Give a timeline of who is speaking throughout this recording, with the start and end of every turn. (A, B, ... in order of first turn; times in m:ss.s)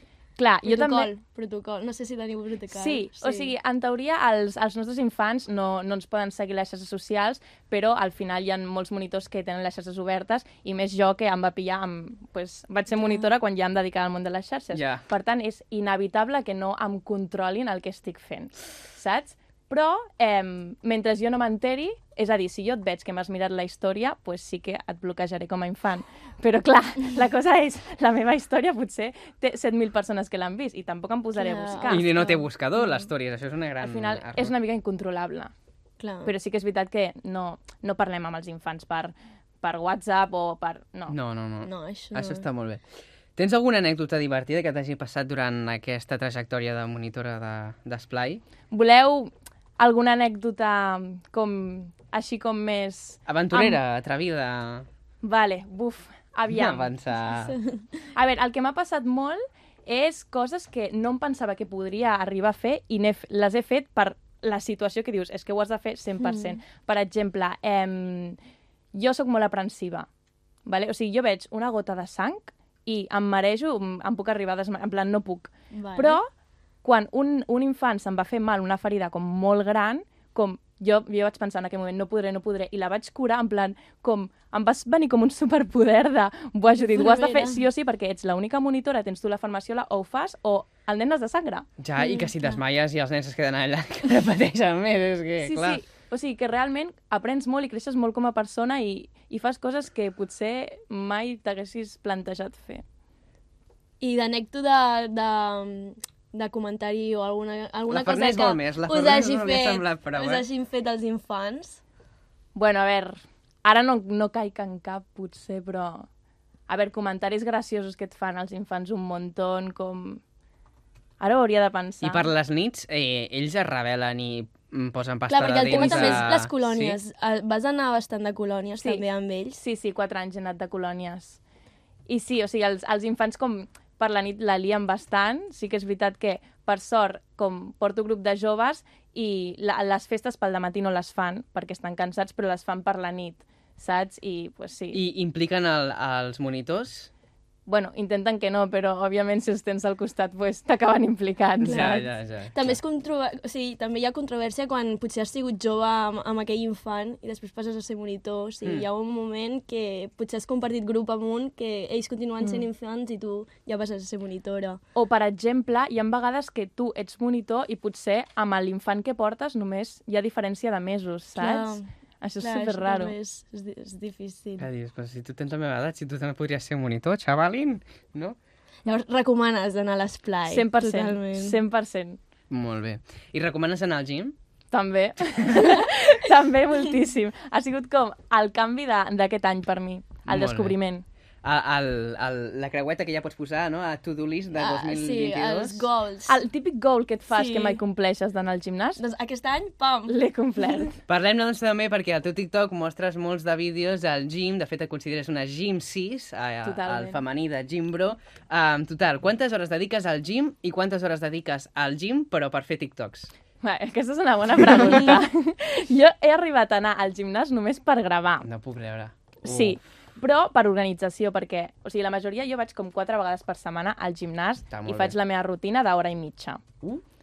0:00.4-0:01.1 A
0:00.6-0:03.5 B
0:02.7-0:32.1 A
0:13.0-0:13.2 B
0:14.7-0:15.0 C
0:31.4-0:33.1 B
0:31.9-0:34.5 C
0:33.8-0:35.5 A
0:36.0-0:36.3 B
0:36.2-0:41.2 A
0:41.1-0:42.8 C
0:41.6-0:42.4 B
0:43.4-0:48.4 C
0:48.7-0:53.8 A
0:53.3-0:54.9 C
0:55.2-0:56.9 A
0:56.5-0:57.6 C
0:57.3-0:57.8 B
0:58.2-1:08.4 A
1:06.2-1:06.6 B
1:08.9-1:10.1 A
1:10.6-1:16.3 A
1:15.7-1:16.2 B
1:16.8-1:31.7 A
1:26.8-1:27.6 B
1:31.8-1:35.8 C
1:32.0-1:32.6 B
1:35.4-1:42.8 A
1:44.0-1:51.8 B
1:47.9-1:50.5 C
1:52.6-1:56.1 A
1:56.7-2:00.2 A
2:01.2-2:02.3 A
2:02.0-2:07.0 C
2:05.3-2:09.6 B
2:05.5-2:06.3 A
2:08.8-2:11.4 A
2:12.1-2:25.0 A
2:24.9-2:27.1 C
2:27.7-2:32.1 A
2:31.6-2:32.8 C
2:31.6-2:44.8 B
2:42.4-2:42.7 A
2:45.0-2:53.2 A
2:51.4-2:51.8 B
2:52.4-2:54.7 B
2:54.6-2:58.4 C
2:58.8-3:01.6 B
3:00.5-3:02.2 A
3:02.5-3:04.4 C
3:04.7-3:11.0 A
3:10.3-3:10.8 C
3:11.4-3:15.9 C
3:14.5-3:16.4 B
3:16.3-3:19.0 A
3:17.3-3:17.8 B
3:19.0-3:20.1 B
3:20.1-3:21.0 A
3:21.1-3:33.3 C
3:26.6-3:27.2 A
3:33.6-3:38.5 A
3:38.4-3:39.8 C
3:39.4-3:46.6 A
3:44.7-3:45.2 C